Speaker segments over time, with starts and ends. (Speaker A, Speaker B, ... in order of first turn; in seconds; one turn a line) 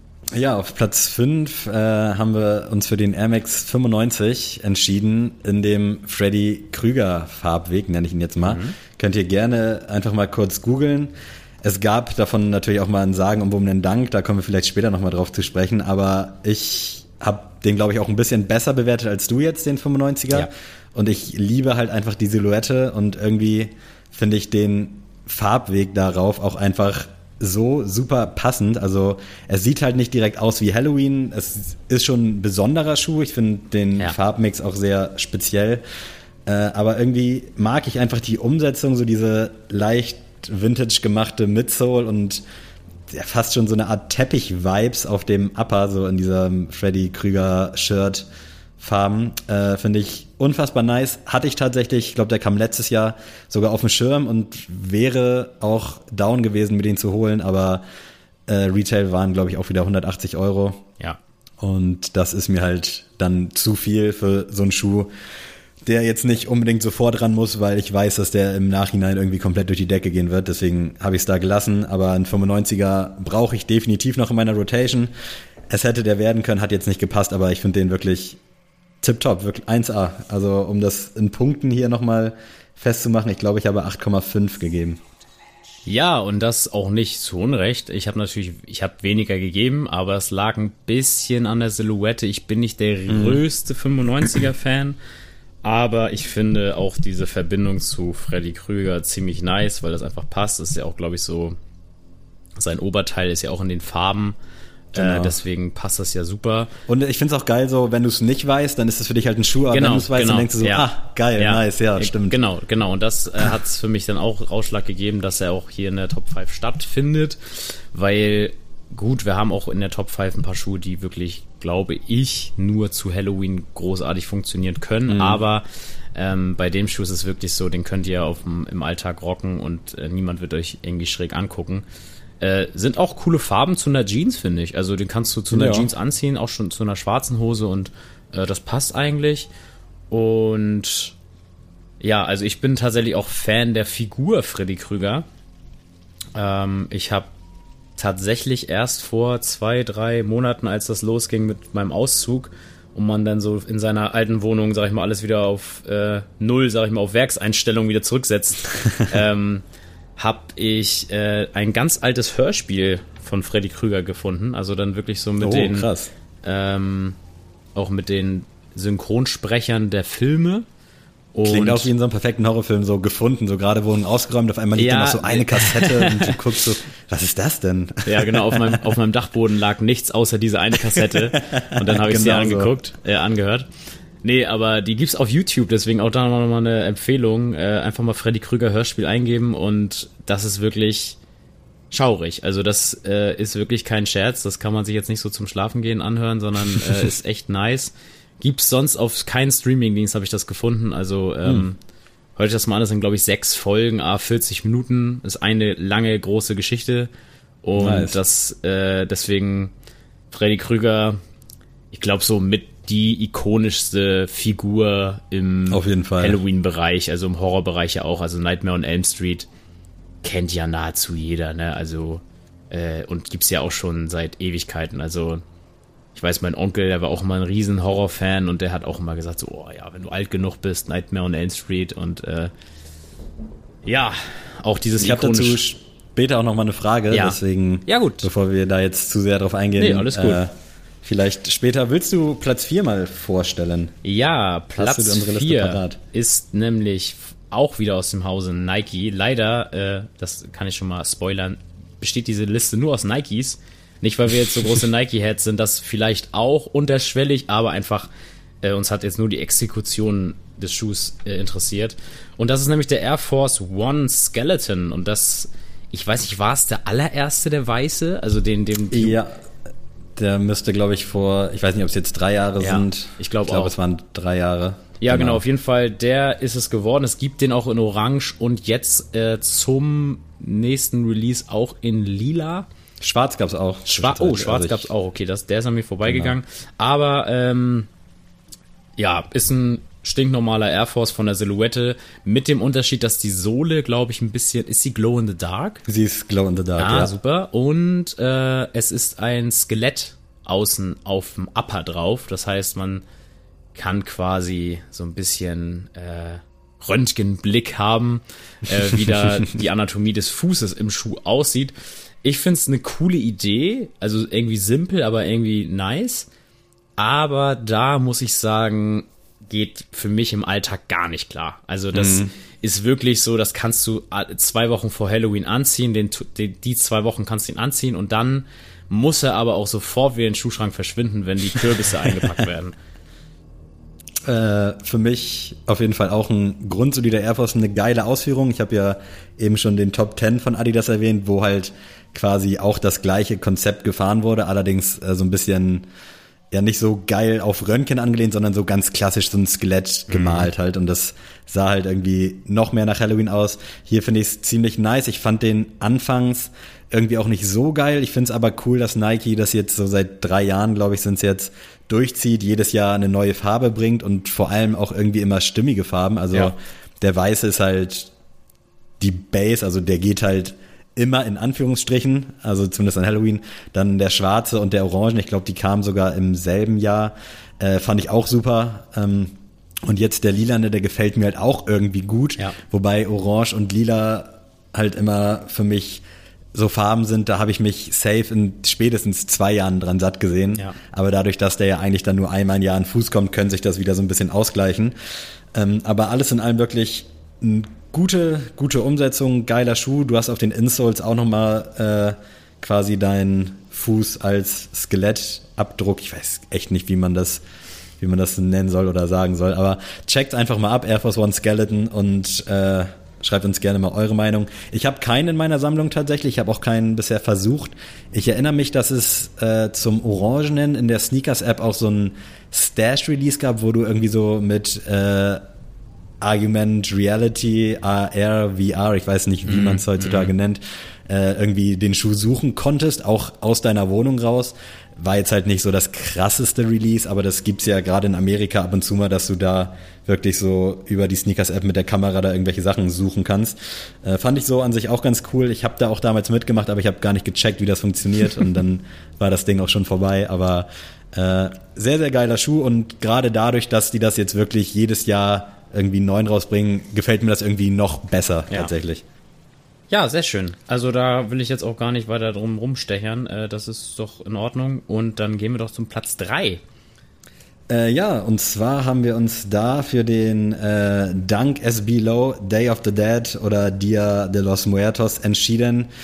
Speaker A: 0.3-35.8
Speaker B: 8.4-8.8
Speaker A: 36.5-42.4
Speaker A: 43.1-48.3
Speaker A: 48.8-57.8
Speaker A: 58.5-60.8
Speaker A: 61.6-65.1
Speaker A: 65.8-75.1
Speaker A: 75.7-78.4
Speaker A: 79.0-85.0
Speaker B: 85.9-95.0
Speaker A: 93.1-93.4
Speaker B: 95.6-101.6
Speaker B: 102.6-104.4
Speaker A: 104.9-105.3
Speaker B: 104.9-106.7
Speaker A: 106.9-112.4
Speaker B: 109.7-131.8
Speaker A: 125.1-125.4
Speaker B: 132.4-139.5
Speaker A: 135.5-135.9
Speaker B: 140.1-141.1
Speaker B: 142.0-145.2
Speaker B: 146.3-147.3
Speaker B: 148.0-159.6
Speaker B: 160.2-165.9
Speaker A: 165.4-166.1
Speaker B: 166.4-167.2
Speaker B: 167.7-170.6
Speaker B: 171.3-171.9
Speaker A: 171.4-178.8
Speaker B: 174.7-176.4
Speaker B: 178.1-183.7
Speaker A: 180.9-182.7
Speaker B: 184.2-191.2
Speaker B: 191.9-201.8
Speaker B: 202.4-207.1
Speaker B: 207.6-209.7
Speaker A: 207.8-208.2
Speaker B: 210.3-211.2
Speaker B: 211.9-219.5
Speaker A: 215.7-216.4
Speaker B: 220.2-225.4
Speaker B: 226.1-232.5
Speaker B: 233.8-235.6
Speaker A: 235.0-240.5
Speaker B: 237.1-238.3
Speaker B: 239.8-240.4
Speaker A: 241.0-243.9
Speaker B: 244.0-258.1
Speaker A: 244.8-246.0
Speaker B: 258.6-269.2
Speaker A: 268.9-269.4
Speaker A: 270.1-275.4
Speaker B: 272.6-273.7
Speaker B: 275.0-282.7
Speaker A: 283.0-284.9
Speaker B: 283.9-287.9
Speaker A: 286.1-286.4
Speaker B: 289.0-295.8
Speaker A: 295.9-297.1
Speaker B: 296.8-303.0
Speaker B: 303.7-316.3
Speaker B: 317.0-332.7
Speaker A: 321.9-322.3
Speaker A: 334.2-345.9
Speaker A: 346.5-368.1
Speaker B: 350.1-350.5
Speaker A: 369.0-379.4
Speaker A: 379.9-394.9
Speaker A: 395.5-407.4
Speaker A: 408.0-425.4
Speaker A: 426.2-459.0
Speaker B: 429.5-430.3
Speaker B: 459.9-466.6
Speaker A: 467.7-475.9